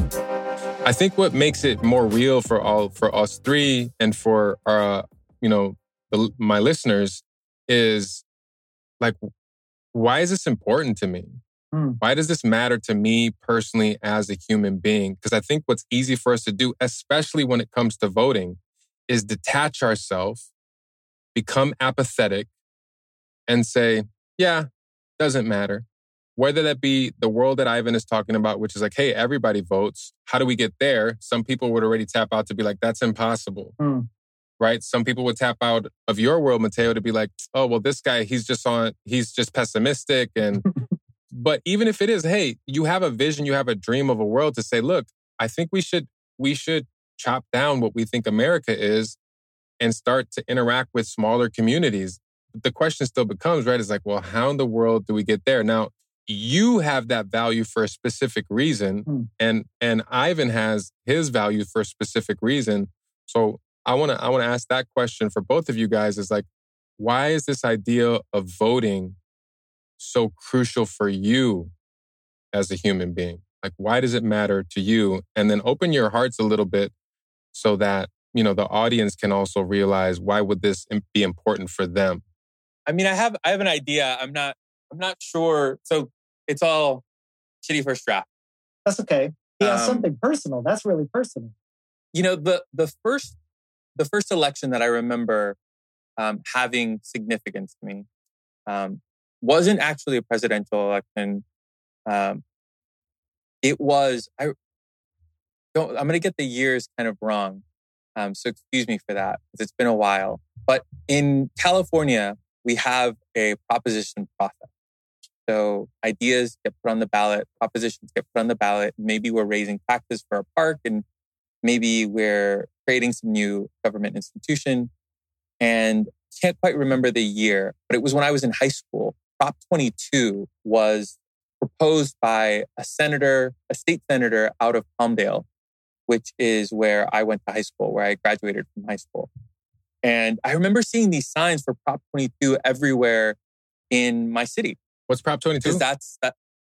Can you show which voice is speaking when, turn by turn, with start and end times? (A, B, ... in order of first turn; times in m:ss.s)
0:00.8-0:08.2 A
0:09.9-0:11.4 A
0:11.7-0:12.0 B
0:12.0-0:20.5 A
0:21.3-0:22.5 A
0:23.5-0:24.7 A
0:25.2-0:33.8 A
0:33.8-0:34.1 B
0:34.6-0:40.7 A
0:41.3-0:49.2 A
0:49.8-1:06.4 A
1:07.0-1:09.2 A
1:10.0-1:11.7 A
1:12.5-1:16.9 A
1:17.5-1:22.2 A
1:22.8-1:27.0 C
1:27.6-1:28.3 C
1:28.8-1:31.5 B
1:29.6-1:30.1 C
1:32.1-1:33.4 C
1:34.0-1:35.6 C
1:36.2-1:38.0 C
1:38.7-1:41.4 C
1:42.1-1:42.4 C
1:43.6-1:44.5 C
1:45.7-1:47.6 C
1:48.2-1:54.7 C
1:55.5-2:01.0 C
2:01.6-2:04.9 C
2:05.6-2:15.4 C
2:16.1-2:19.3 C
2:20.0-2:23.4 C
2:23.9-2:24.8 C
2:25.1-2:25.8 A
2:25.6-2:26.3 C